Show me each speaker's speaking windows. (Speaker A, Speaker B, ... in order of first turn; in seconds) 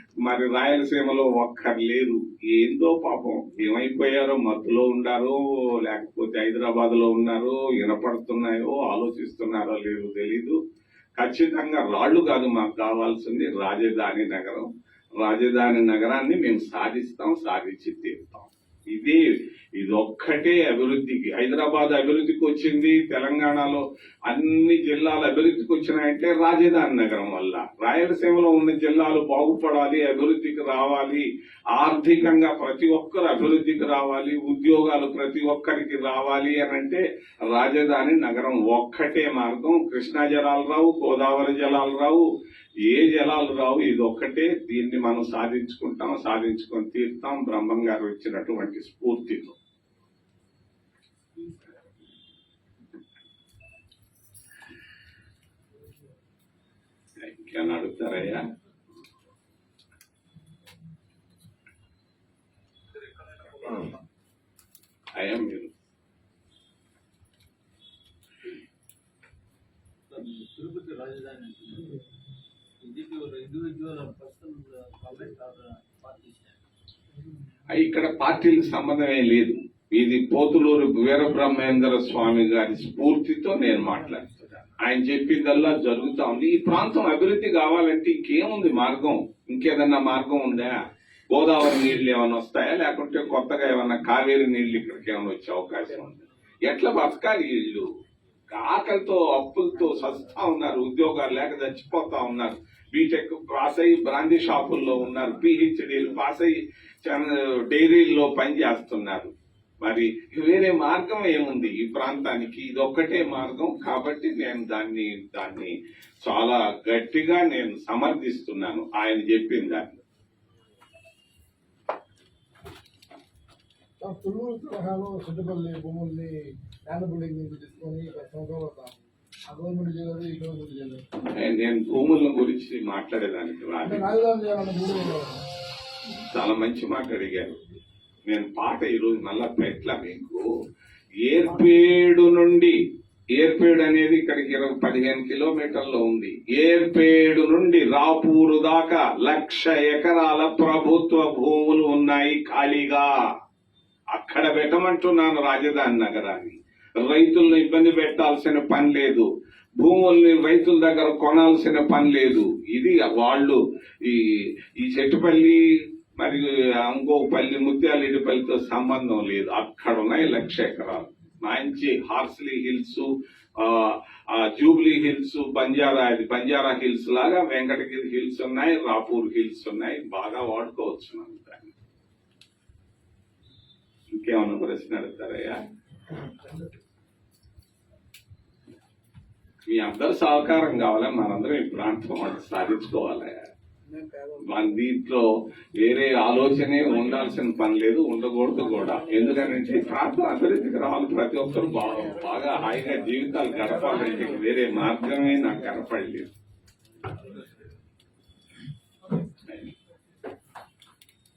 Speaker A: 0.2-10.6, 11.2-14.7, 15.2-42.2, 42.9-49.6, 57.2-58.4, 65.2-65.7, 77.7-97.9, 98.5-109.3, 109.8-120.0, 131.4-134.1, 136.3-137.6, 138.3-140.4, 141.3-142.8, 143.4-153.2, 154.1-159.3, 159.8-165.6, 166.2-181.7, 184.2-185.6, 189.7-193.4, 194.4-206.3
Speaker B: 70.1-72.0, 72.8-76.6
Speaker C: 124.0-131.0, 133.8-135.3, 193.9-194.8, 203.5-204.2